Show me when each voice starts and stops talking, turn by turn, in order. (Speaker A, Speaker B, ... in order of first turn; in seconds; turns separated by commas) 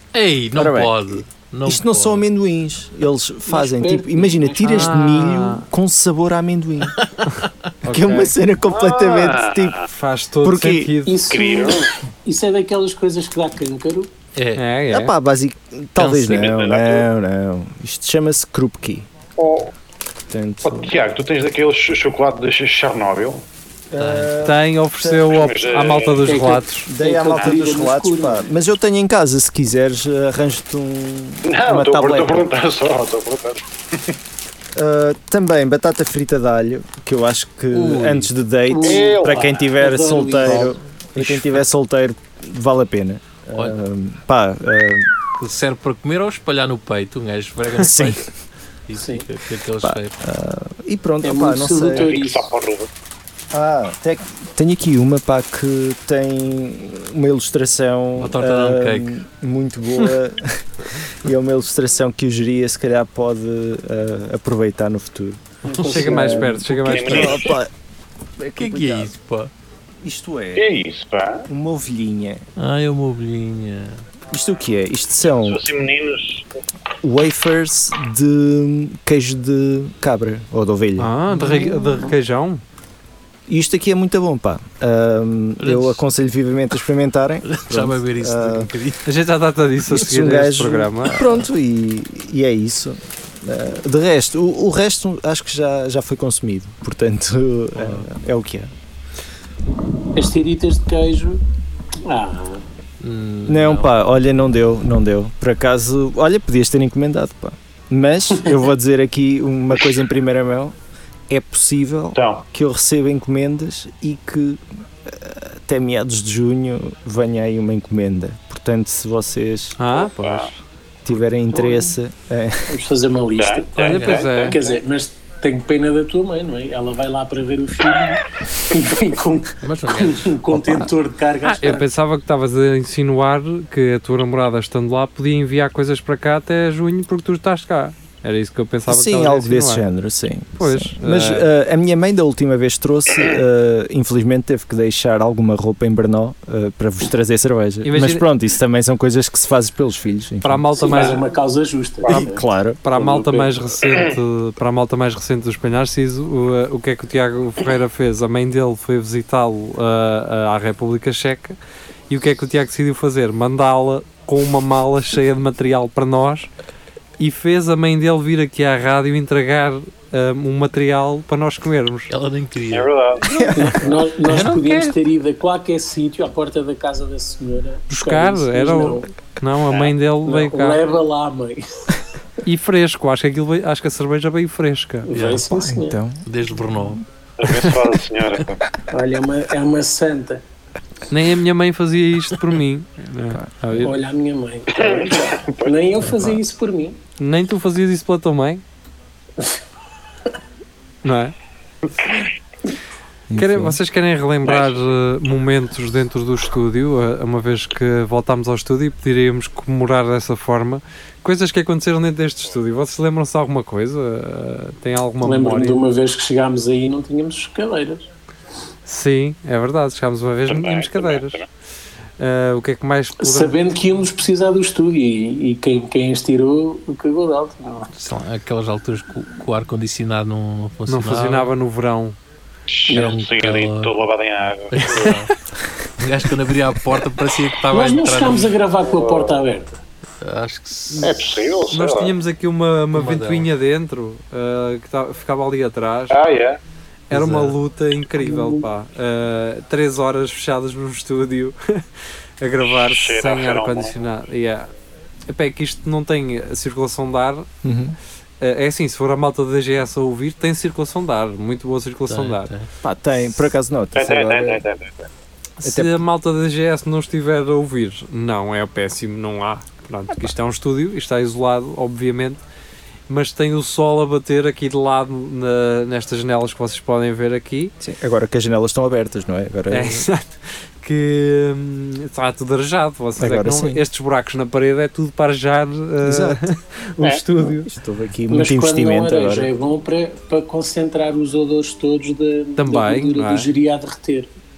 Speaker A: 0.1-2.2, Speaker B: 0.5-7.0, Speaker C: 3.5-5.0, Speaker D: 4.7-5.7, Speaker A: 7.0-7.3, Speaker D: 7.8-8.3, Speaker B: 7.9-9.8, Speaker E: 8.7-9.9, Speaker D: 9.9-11.4, Speaker B: 10.4-10.9, Speaker C: 11.1-14.1, Speaker E: 11.3-11.9, Speaker A: 14.3-14.6, Speaker D: 14.6-15.1, Speaker B: 14.9-19.1, Speaker A: 16.0-16.5, Speaker E: 16.2-17.1, Speaker E: 19.4-19.7, Speaker B: 20.3-20.9, Speaker E: 20.6-23.4, Speaker B: 23.9-25.5, Speaker A: 24.0-24.3, Speaker D: 24.4-26.9, Speaker E: 25.3-26.3, Speaker C: 26.2-28.5, Speaker B: 26.9-32.5, Speaker E: 31.4-34.1, Speaker B: 34.7-45.1, Speaker A: 37.7-38.3, Speaker C: 38.7-40.8, Speaker E: 38.8-39.5, Speaker A: 41.2-41.5, Speaker A: 45.4-48.3, Speaker B: 47.8-48.3, Speaker A: 48.9-50.2, Speaker B: 49.8-52.1, Speaker C: 51.2-52.5, Speaker E: 51.9-52.9, Speaker B: 53.5-67.7, Speaker A: 58.2-59.2, Speaker C: 65.6-66.7, Speaker A: 65.7-66.1, Speaker D: 65.9-67.5, Speaker E: 66.8-67.5, Speaker B: 68.4-69.1, Speaker A: 68.6-69.5, Speaker B: 70.0-70.7, Speaker E: 70.5-71.5, Speaker B: 71.5-72.4, Speaker A: 72.6-74.0, Speaker B: 74.3-75.6, Speaker E: 75.4-76.4, Speaker B: 77.0-82.1, Speaker D: 81.0-82.6, Speaker B: 83.5-88.7, Speaker A: 85.6-86.0, Speaker A: 87.5-89.1, Speaker D: 89.0-91.2, Speaker B: 89.9-98.7, Speaker A: 97.8-98.0, Speaker C: 100.1-101.4, Speaker C: 102.0-102.6, Speaker A: 103.0-104.0, Speaker B: 103.5-110.8, Speaker B: 111.3-119.8, Speaker E: 112.1-112.4, Speaker D: 119.8-120.6, Speaker E: 119.9-120.5, Speaker B: 121.0-122.8, Speaker C: 121.5-121.9, Speaker C: 122.7-131.8, Speaker E: 123.4-124.6, Speaker D: 123.8-124.6, Speaker A: 123.9-124.2, Speaker A: 129.6-130.3, Speaker B: 130.5-130.9, Speaker D: 131.4-139.8, Speaker B: 138.9-151.0, Speaker D: 140.6-141.5, Speaker D: 147.8-148.3, Speaker D: 150.4-151.2, Speaker C: 150.8-153.6, Speaker E: 150.9-151.2, Speaker B: 152.1-152.8, Speaker D: 152.8-161.6, Speaker D: 162.1-166.5, Speaker D: 167.2-172.1, Speaker A: 172.1-172.9, Speaker E: 172.7-173.4, Speaker B: 173.2-173.9, Speaker C: 173.5-179.1, Speaker A: 174.3-174.9, Speaker D: 177.9-180.8, Speaker C: 180.2-182.0, Speaker D: 182.4-185.1, Speaker C: 185.1-186.0, Speaker A: 185.1-185.5, Speaker B: 185.5-186.2, Speaker A: 186.2-187.0, Speaker E: 187.4-188.6, Speaker C: 188.9-190.4, Speaker D: 191.1-193.9, Speaker B: 193.3-193.9, Speaker C: 193.8-197.0, Speaker E: 194.7-195.7, Speaker B: 196.0-196.4, Speaker D: 197.2-198.6, Speaker D: 201.0-201.3, Speaker E: 202.0-202.2, Speaker B: 203.3-203.8, Speaker D: 203.3-215.8, Speaker E: 204.4-204.8, Speaker C: 215.2-218.1, Speaker D: 218.8-221.4, Speaker E: 220.5-221.4, Speaker D: 222.2-223.5, Speaker C: 223.2-227.9, Speaker A: 227.9-231.5, Speaker D: 230.9-232.2, Speaker E: 232.7-235.2, Speaker A: 232.9-233.9, Speaker A: 234.7-235.3, Speaker A: 236.0-238.6, Speaker C: 237.7-239.8, Speaker E: 238.9-239.4, Speaker A: 240.2-241.1, Speaker D: 240.9-246.2, Speaker E: 241.0-242.1, Speaker A: 242.9-243.5, Speaker E: 246.1-246.6, Speaker D: 247.1-251.8, Speaker A: 247.1-247.6, Speaker C: 248.2-248.7, Speaker D: 252.4-254.7, Speaker E: 252.6-253.9, Speaker D: 255.3-257.5, Speaker B: 257.6-257.9, Speaker D: 258.4-262.5, Speaker A: 262.1-262.7, Speaker B: 262.8-264.6, Speaker E: 263.9-265.1, Speaker D: 265.6-272.4, Speaker B: 265.6-266.0, Speaker D: 273.1-277.7, Speaker B: 277.8-280.1, Speaker D: 279.7-287.7, Speaker B: 283.2-283.8, Speaker B: 286.0-286.4, Speaker B: 287.4-289.5, Speaker C: 288.3-294.3, Speaker D: 292.6-293.5